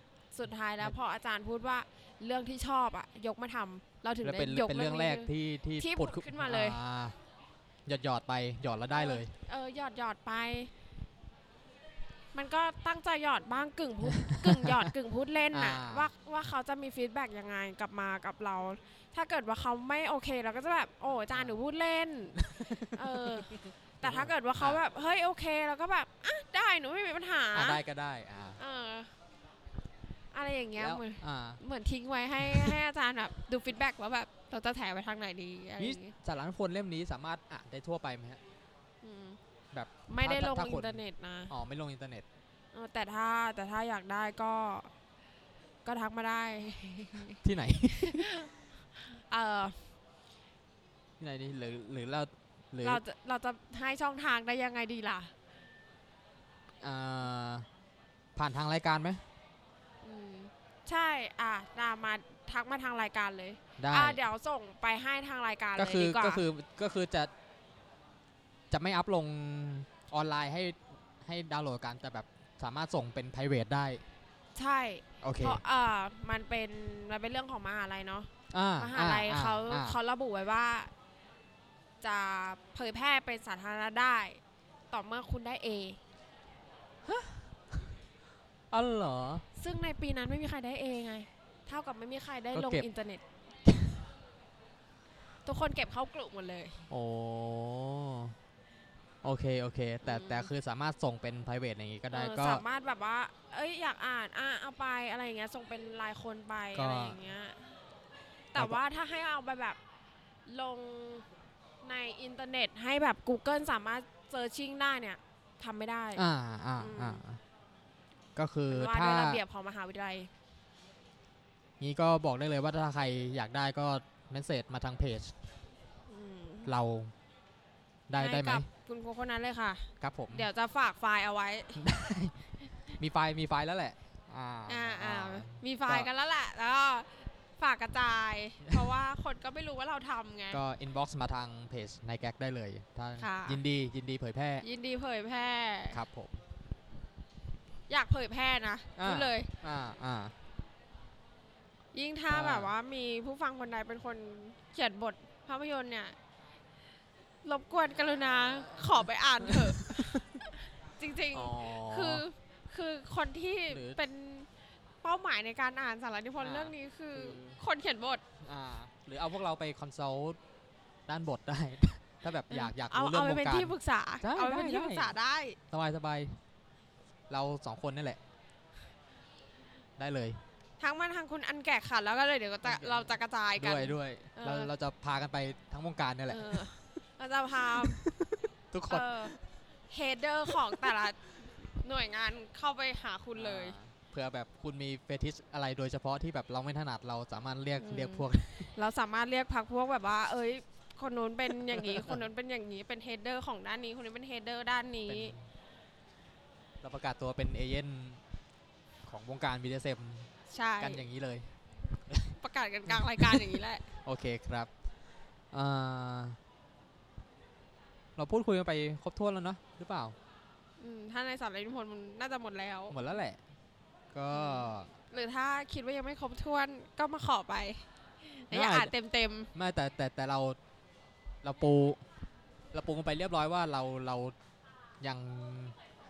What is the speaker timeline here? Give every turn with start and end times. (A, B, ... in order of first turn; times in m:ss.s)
0:00.3-0:06.8 A
0:04.2-0:07.2 B
0:07.8-0:09.3 B
0:08.9-0:10.7 A
0:12.3-0:22.4 A
0:14.2-0:14.9 B
0:15.5-0:16.1 B
0:22.4-0:24.8 B
0:22.9-0:27.8 A
0:27.5-0:28.6 B
0:28.6-0:29.1 A
0:30.3-0:36.1 A
0:30.8-0:31.6 B
0:32.4-0:32.8 B
0:35.8-0:38.4 B
0:39.0-0:39.4 A
0:39.7-0:42.2 B
0:40.1-0:41.5 A
0:42.7-0:44.9 A
0:45.8-0:49.8 A
0:47.4-0:48.3 B
0:51.2-0:53.0 B
0:52.8-0:55.3 A
0:56.8-0:57.7 B
0:58.4-0:59.2 B
1:00.0-1:06.4 A
1:03.8-1:04.2 B
1:05.8-1:07.3 B
1:08.7-1:14.0 B
1:14.6-1:20.9 A
1:15.2-1:15.6 B
1:18.5-1:20.0 B
1:22.0-1:24.4 A
1:24.9-1:26.0 A
1:27.0-1:27.9 B
1:28.7-1:29.4 B
1:29.6-1:33.2 A
1:32.5-1:32.9 B
1:33.6-1:34.0 B
1:35.4-1:36.9 A
1:36.9-1:38.4 B
1:39.2-1:42.6 B
1:40.0-1:40.5 A
1:42.1-1:47.6 A
1:46.7-1:47.2 B
1:48.5-1:49.8 A
1:50.5-1:51.2 A
1:51.8-1:56.2 A
1:56.2-1:57.4 B
1:56.8-1:57.2 A
1:58.4-1:59.4 B
1:58.7-2:00.3 A
2:01.8-2:05.3 B
2:06.1-2:06.7 A
2:06.6-2:07.1 B
2:08.1-2:08.7 B
2:08.2-2:11.8 A
2:10.0-2:10.5 B
2:11.7-2:12.4 B
2:13.0-2:16.1 B
2:14.7-2:20.6 A
2:20.5-2:24.6 B
2:23.2-2:23.6 A
2:24.6-2:26.0 A
2:25.9-2:26.4 B
2:27.9-2:29.5 A
2:29.0-2:30.3 B
2:31.9-2:36.2 A
2:32.3-2:32.7 B
2:37.4-2:44.5 A
2:39.4-2:40.4 B
2:41.3-2:42.2 B
2:43.7-2:44.0 B
2:45.0-2:48.2 A
2:46.4-2:47.6 B
2:48.4-2:50.4 B
2:51.1-2:55.1 B
2:52.5-2:55.6 A
2:55.7-2:56.4 B
2:57.3-2:58.2 B
3:00.0-3:00.4 B
3:00.8-3:04.7 A
3:02.6-3:06.6 B
3:06.3-3:08.0 A
3:07.7-3:09.4 B
3:08.9-3:09.4 A
3:09.9-3:13.8 A
3:10.5-3:10.9 B
3:13.4-3:18.7 B
3:17.8-3:25.3 A
3:21.5-3:22.2 B
3:25.1-3:25.4 B
3:26.8-3:28.2 B
3:29.0-3:31.5 B
3:30.5-3:31.0 A
3:32.1-3:32.4 B
3:32.4-3:34.0 A
3:32.9-3:34.7 B
3:35.5-3:36.4 B
3:38.2-3:40.2 B
3:40.8-3:43.0 A
3:42.9-3:43.4 B
3:44.1-3:44.9 B
3:44.3-3:49.5 A
3:48.5-3:48.9 B
3:49.5-3:50.6 B
3:51.4-3:52.0 B
3:52.7-3:54.3 B
3:55.0-3:55.8 B